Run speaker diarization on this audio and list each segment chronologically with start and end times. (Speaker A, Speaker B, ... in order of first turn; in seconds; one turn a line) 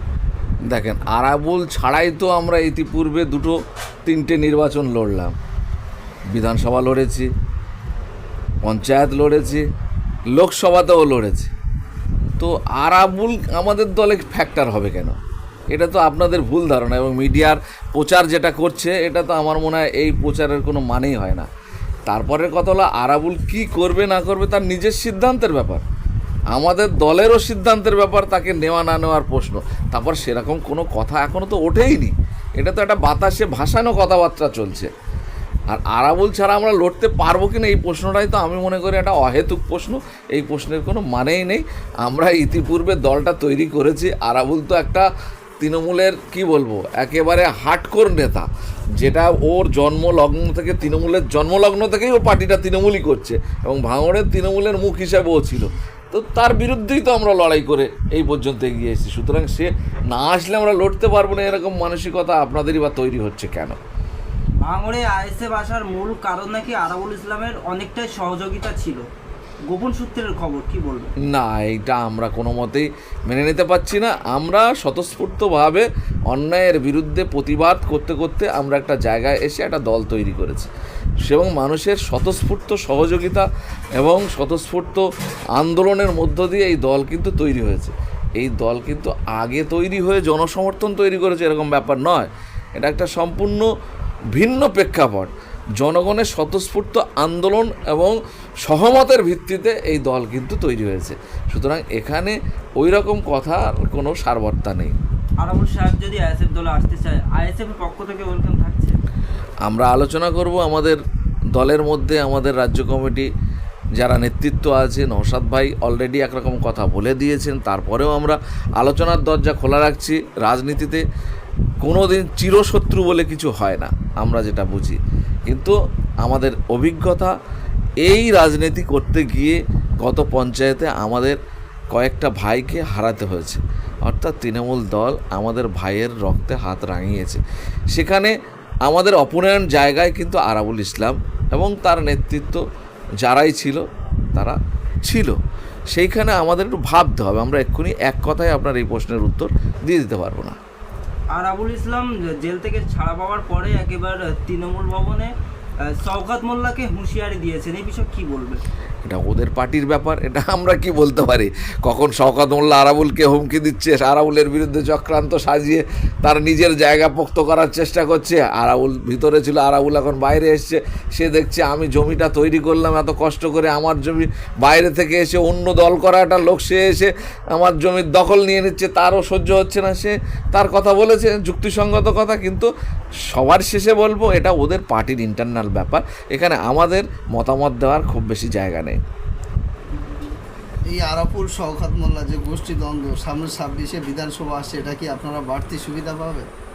Speaker A: 0.7-5.3
Speaker A: 6.3-7.3
Speaker A: 8.6-9.6
Speaker A: 10.3-11.5
Speaker A: 12.4-15.2
Speaker A: 15.7-21.5
Speaker A: 22.1-25.8
Speaker A: 26.5-34.9
Speaker A: 35.7-45.1
Speaker A: 45.6-63.8
Speaker B: 64.6-69.0
Speaker B: 69.7-71.1
Speaker A: 71.2-80.7
Speaker A: 81.2-83.5
Speaker A: 84.0-85.0
Speaker A: 85.5-93.7
Speaker A: 94.3-104.9
Speaker B: 105.4-109.0
Speaker A: 109.6-111.0
Speaker A: 111.5-113.3
Speaker A: 114.0-121.0
Speaker A: 121.8-127.3
Speaker A: 128.0-131.4
Speaker A: 131.9-137.4
Speaker A: 137.9-138.3
Speaker A: 138.8-142.6
Speaker A: 143.2-143.8
Speaker A: 144.3-145.3
Speaker A: 145.9-150.6
Speaker B: 151.3-155.3
Speaker B: 155.9-158.6
Speaker A: 159.0-182.7
Speaker A: 183.3-189.0
Speaker C: 189.9-190.3
Speaker C: 190.9-196.5